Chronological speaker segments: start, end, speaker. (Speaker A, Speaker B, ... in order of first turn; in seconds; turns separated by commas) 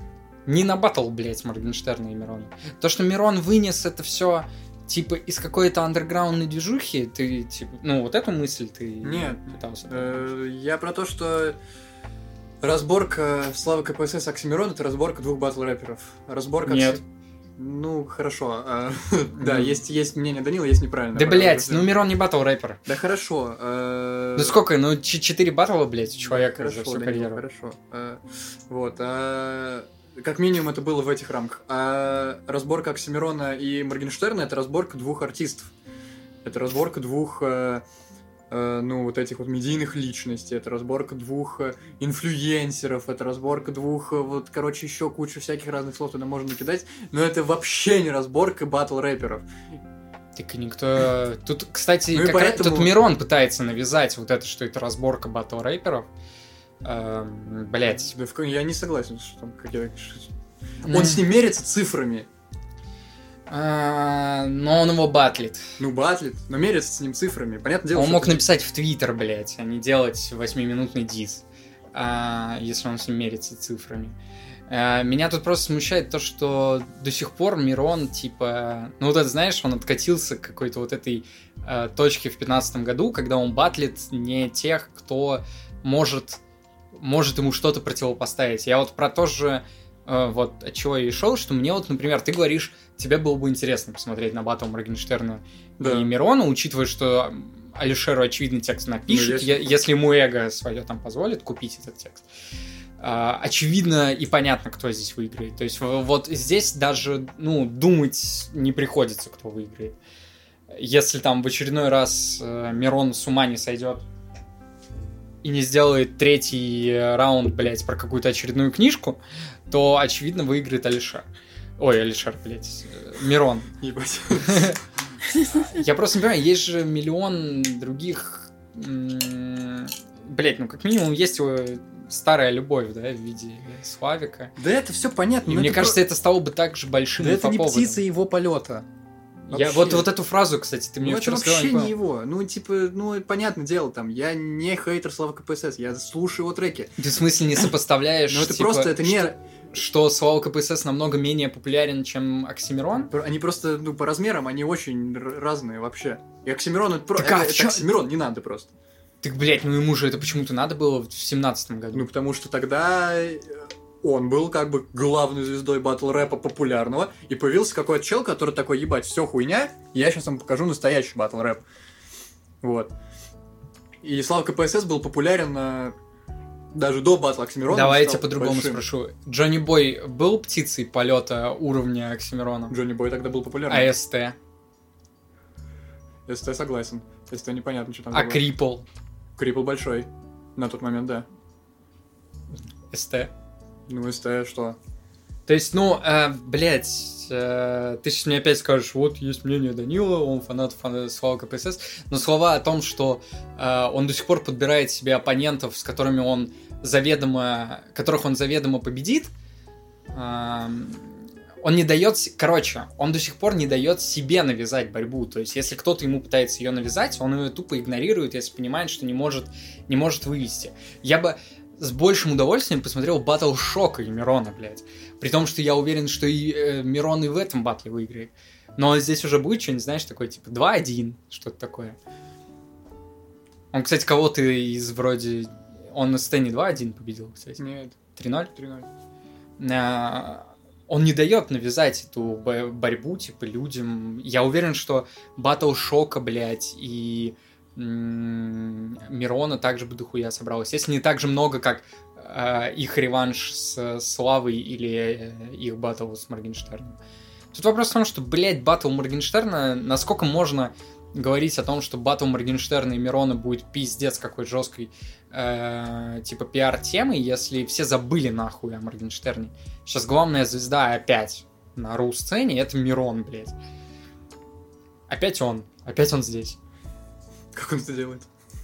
Speaker A: 0.5-10.3, Speaker B: 9.0-11.6, Speaker B: 12.6-17.0, Speaker A: 16.6-17.0, Speaker B: 17.6-21.9, Speaker A: 19.4-19.8, Speaker A: 21.1-22.8, Speaker B: 22.9-24.6, Speaker A: 24.4-27.4, Speaker B: 26.2-35.7, Speaker B: 36.4-37.8, Speaker B: 38.5-49.5, Speaker A: 50.4-56.1, Speaker B: 52.1-53.0, Speaker A: 56.8-58.1, Speaker B: 57.9-60.3, Speaker A: 60.8-61.2, Speaker B: 60.9-62.3, Speaker A: 63.5-65.7, Speaker B: 65.8-68.4, Speaker A: 67.9-74.2, Speaker A: 74.7-86.4, Speaker A: 86.9-102.2, Speaker B: 95.8-96.1, Speaker B: 99.1-99.8, Speaker A: 103.0-110.0, Speaker A: 110.7-114.0, Speaker A: 115.4-121.2, Speaker A: 121.8-123.7, Speaker B: 123.8-124.8, Speaker A: 124.4-124.8, Speaker A: 125.4-134.6, Speaker B: 134.6-136.0, Speaker A: 135.4-138.0, Speaker B: 137.2-138.9, Speaker A: 139.5-141.9, Speaker B: 139.5-140.1, Speaker B: 141.0-147.0, Speaker A: 147.0-153.1, Speaker B: 148.3-149.4, Speaker B: 152.9-158.7, Speaker A: 157.2-157.9, Speaker A: 159.2-162.1, Speaker B: 161.9-171.6, Speaker B: 172.6-172.9, Speaker B: 174.0-175.9, Speaker B: 176.7-178.8, Speaker A: 177.7-182.7, Speaker B: 182.7-183.9, Speaker A: 183.7-184.3, Speaker B: 186.3-188.5, Speaker A: 188.1-188.8, Speaker B: 189.4-191.3, Speaker A: 192.9-193.3, Speaker B: 193.9-194.8, Speaker A: 195.5-209.3, Speaker A: 210.1-232.0, Speaker A: 233.7-237.6, Speaker B: 237.6-238.0, Speaker A: 238.2-238.5, Speaker B: 238.5-238.9, Speaker A: 239.6-257.0, Speaker A: 257.5-273.5, Speaker A: 275.1-276.6, Speaker B: 277.5-278.3